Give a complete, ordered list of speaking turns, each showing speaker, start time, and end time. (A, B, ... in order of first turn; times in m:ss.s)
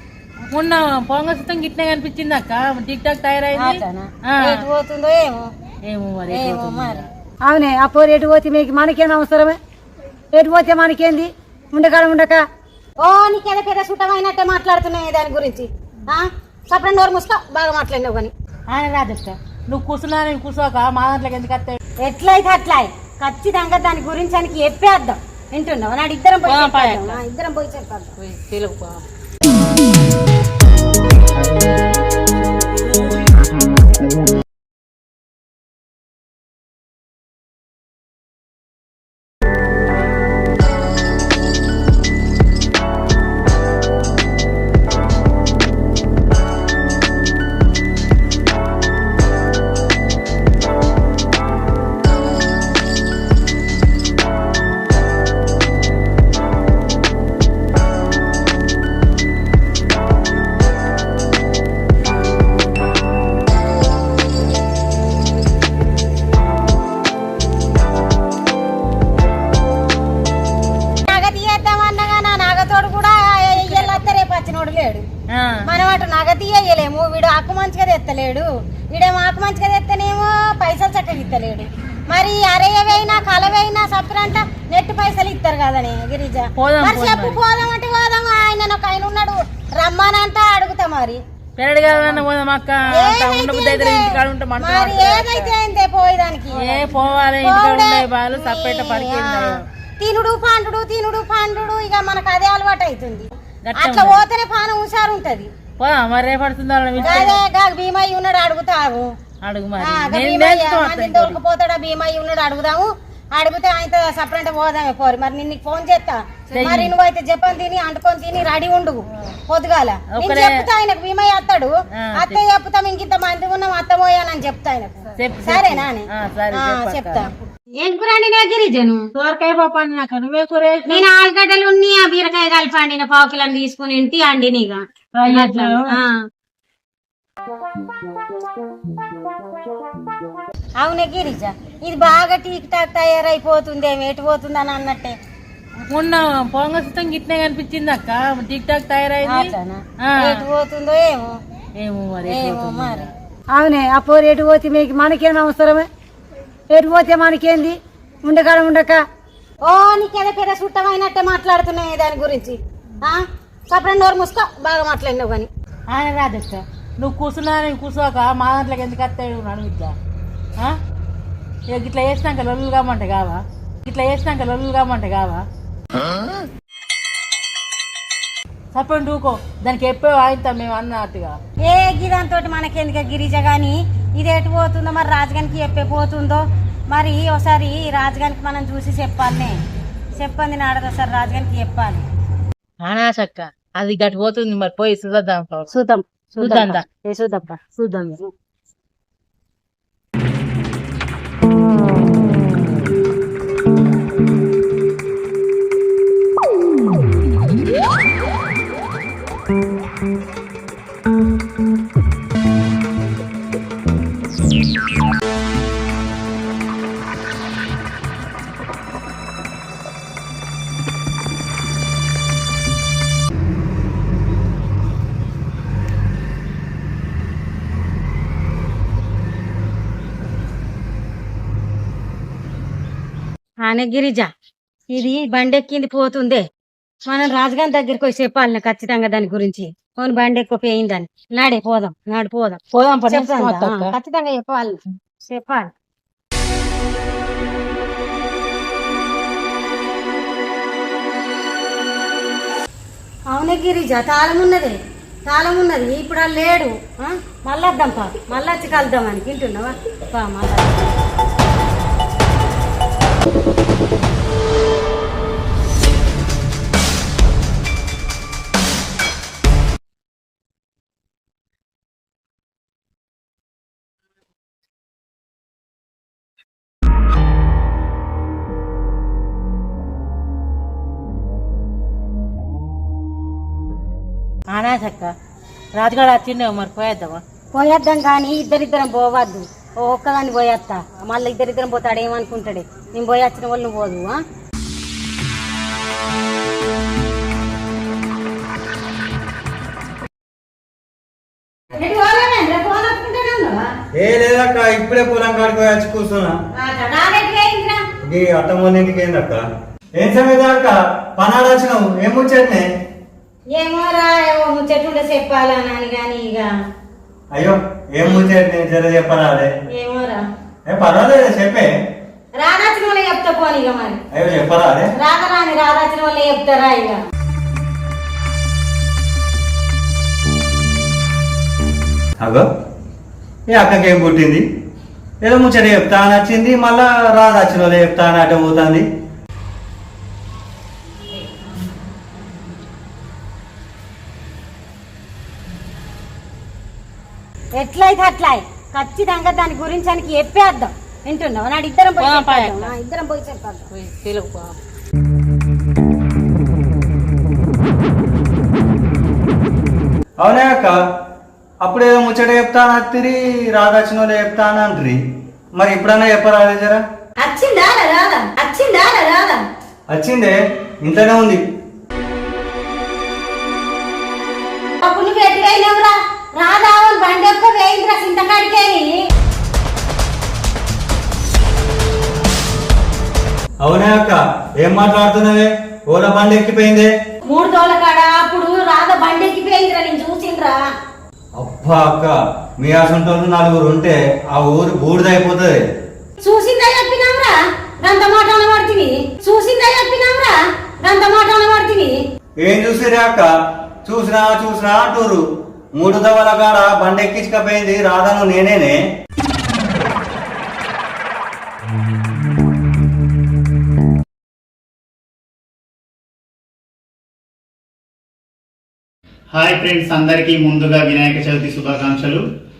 0:00.5-0:04.6 A
0:03.5-0:05.5 B
0:05.8-0:07.1 A
0:06.3-0:07.0 B
0:07.5-0:09.6 C
0:10.3-0:12.4 C
0:13.0-0:18.3 B
0:18.7-0:21.8 A
0:22.0-0:28.1 B
0:26.4-0:27.2 A
0:28.2-0:29.0 A
1:11.0-1:15.0 B
1:13.6-1:14.1 A
1:15.3-1:15.6 A
1:15.6-1:31.2 B
1:26.6-1:27.4 A
1:31.6-1:35.5 A
1:32.9-1:36.9 B
1:36.6-1:39.6 A
1:37.4-1:45.5 B
1:43.6-1:44.2 A
1:45.8-1:47.4 A
1:47.0-1:49.1 B
1:49.4-1:51.4 A
1:49.8-2:09.1 B
1:56.5-1:56.9 A
2:00.1-2:00.6 A
2:01.9-2:02.4 A
2:05.2-2:07.3 A
2:09.1-2:11.0 A
2:10.9-2:16.2 B
2:15.1-2:16.0 A
2:20.8-2:25.2 B
2:25.9-2:29.5 A
2:29.2-2:31.3 B
2:30.0-2:30.4 A
2:31.8-2:33.1 A
2:32.2-2:33.1 B
2:33.6-2:35.9 C
2:36.7-2:39.0 C
2:39.6-2:45.5 B
2:45.9-2:49.9 A
2:51.7-2:55.4 A
2:58.7-3:01.4 A
3:01.6-3:09.6 B
3:10.2-3:12.0 B
3:12.8-3:15.7 A
3:16.4-3:17.0 A
3:16.4-3:17.6 B
3:17.7-3:18.2 A
3:53.6-3:54.3 B
3:54.9-3:56.4 B
3:57.1-4:05.7 B
4:02.7-4:03.9 A
4:13.3-4:14.8 B
4:15.3-4:21.0 B
4:44.5-4:45.1 A
4:45.8-4:47.2 A
4:47.5-4:54.2 B
5:01.8-5:03.7 B
5:03.9-5:06.4 D
5:06.6-5:07.8 B
5:08.0-5:12.7 D
5:13.5-5:16.5 B
5:17.3-5:19.5 D
5:19.7-5:20.2 B
5:20.6-5:21.7 D
5:22.4-5:24.0 B
5:24.1-5:24.9 D
5:24.9-5:27.0 B
5:32.2-5:32.5 D
5:33.5-5:34.4 D
5:35.2-5:38.8 D
5:47.6-5:53.7 B
5:52.0-5:52.7 A
5:53.7-5:54.6 A
6:00.2-6:00.8 D
6:01.6-6:05.0 D
6:05.6-6:06.8 D
6:07.2-6:09.4 B
6:09.9-6:11.4 D
6:14.8-6:18.9 B
6:23.6-6:26.9 D
6:27.2-6:30.6 B
6:31.4-6:35.7 D
6:36.2-6:42.0 B
6:42.4-6:43.3 D
6:43.8-6:45.2 D
6:45.8-6:48.8 D
6:59.3-7:02.2 E